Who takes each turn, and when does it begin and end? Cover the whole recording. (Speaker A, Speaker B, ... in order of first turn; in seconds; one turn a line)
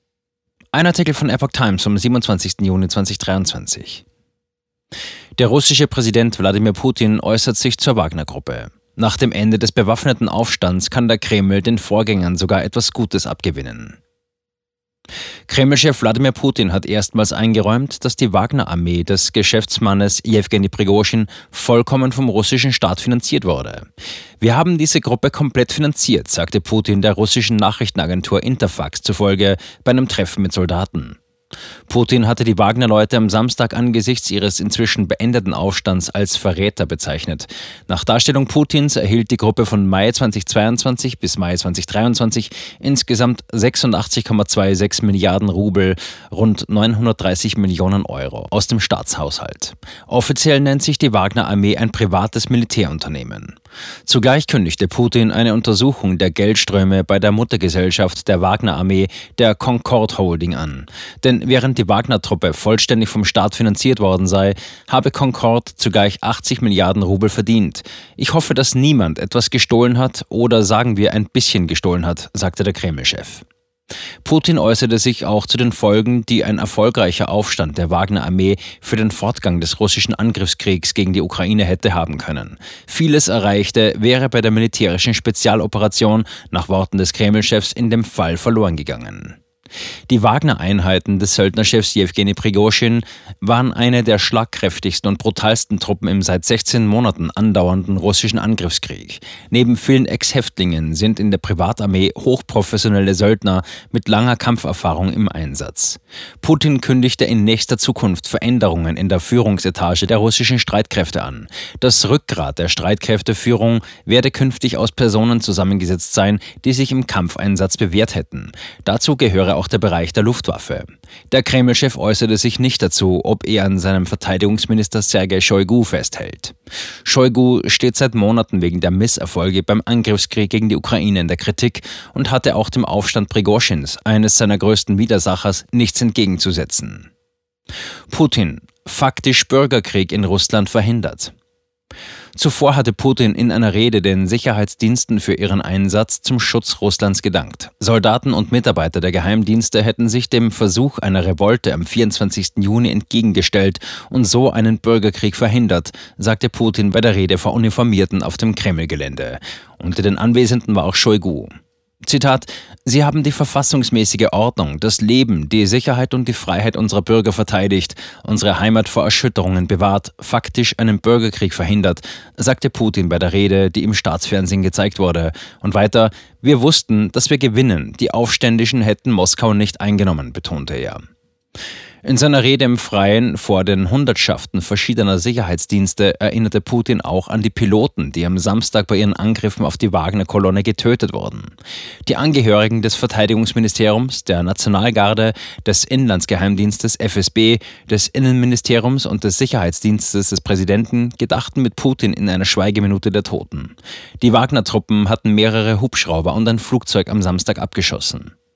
Speaker A: 0.7-4.0
Speaker A: 5.4-14.0
Speaker A: 15.5-23.9
Speaker A: 24.4-31.2
Speaker A: 31.9-53.5
Speaker A: 54.1-73.4
Speaker A: 74.2-89.4
Speaker A: 90.1-137.1
Speaker A: 138.1-141.3
Speaker A: 142.3-161.5
Speaker A: 162.0-181.0
Speaker A: 182.0-191.5
Speaker A: 192.1-208.3